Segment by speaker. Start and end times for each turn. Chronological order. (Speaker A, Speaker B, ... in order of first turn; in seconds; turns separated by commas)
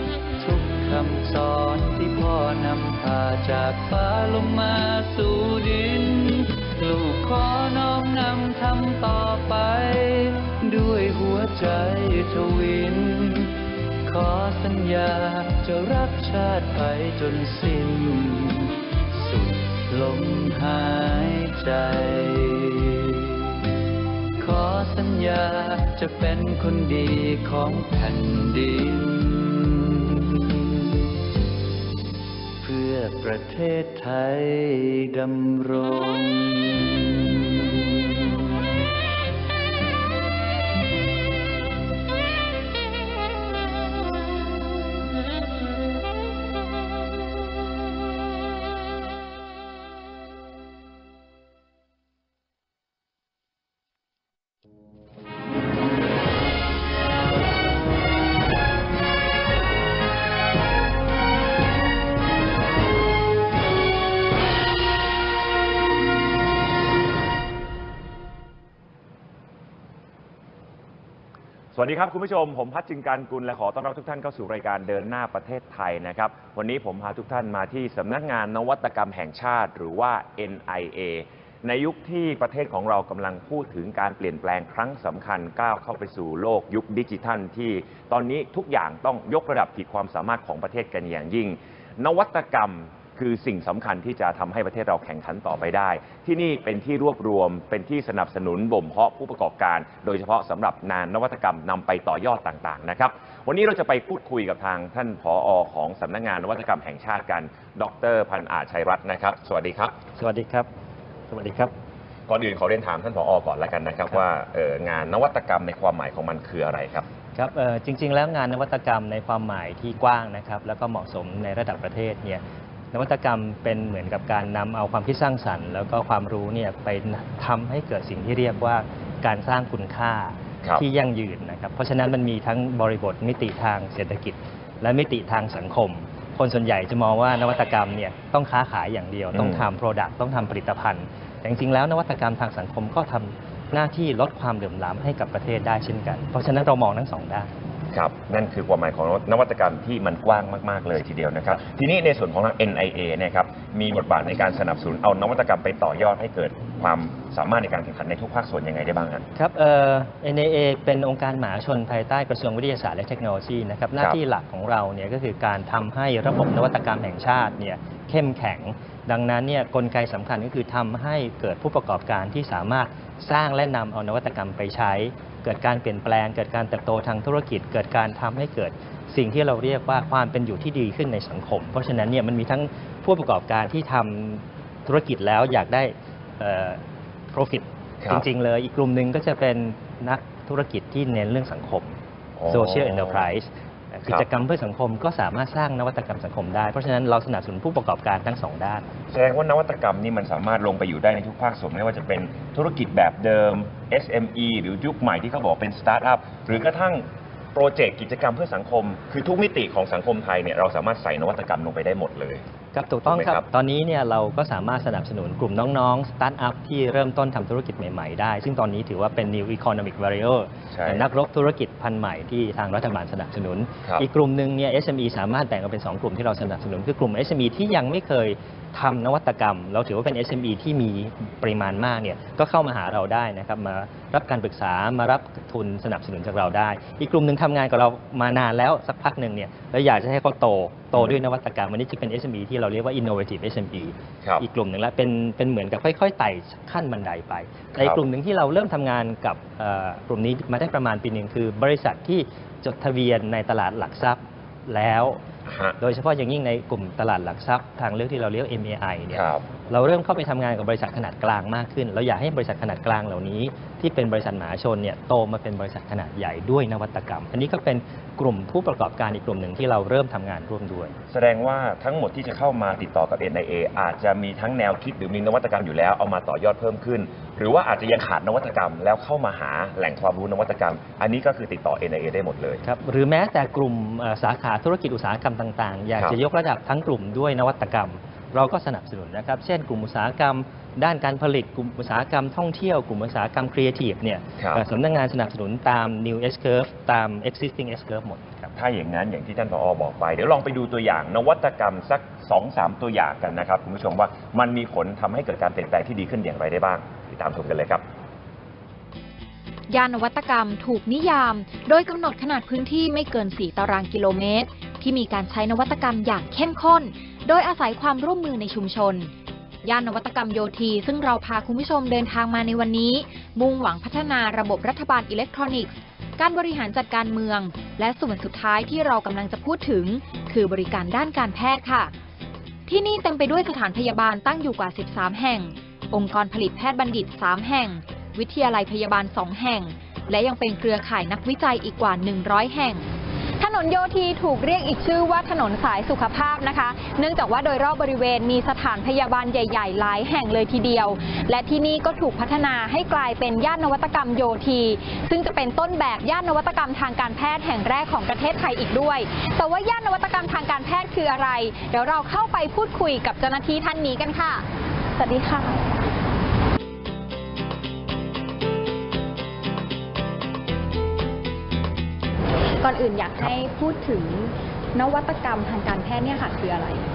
Speaker A: 0.4-23.6, Speaker A: 24.4-30.9, Speaker A: 32.6-38.5, Speaker B: 71.8-110.0, Speaker C: 110.1-110.7, Speaker C: 111.3-111.7, Speaker B: 112.3-117.1, Speaker C: 117.3-147.5, Speaker B: 139.3-139.7, Speaker B: 147.9-159.2, Speaker C: 159.4-186.8, Speaker C: 187.3-192.0, Speaker B: 192.4-193.2, Speaker C: 192.5-198.9, Speaker B: 199.1-212.4, Speaker C: 212.7-255.2, Speaker B: 213.1-213.4, Speaker B: 220.7-221.1, Speaker B: 247.8-248.0, Speaker B: 255.5-255.8, Speaker C: 255.8-270.9, Speaker B: 259.1-259.4, Speaker B: 271.1-282.6, Speaker C: 282.6-298.5, Speaker B: 298.6-307.8, Speaker D: 309.7-319.1, Speaker D: 319.6-331.9, Speaker D: 332.7-342.9, Speaker D: 343.4-346.0, Speaker E: 343.6-364.4, Speaker E: 364.9-365.6, Speaker E: 372.6-376.8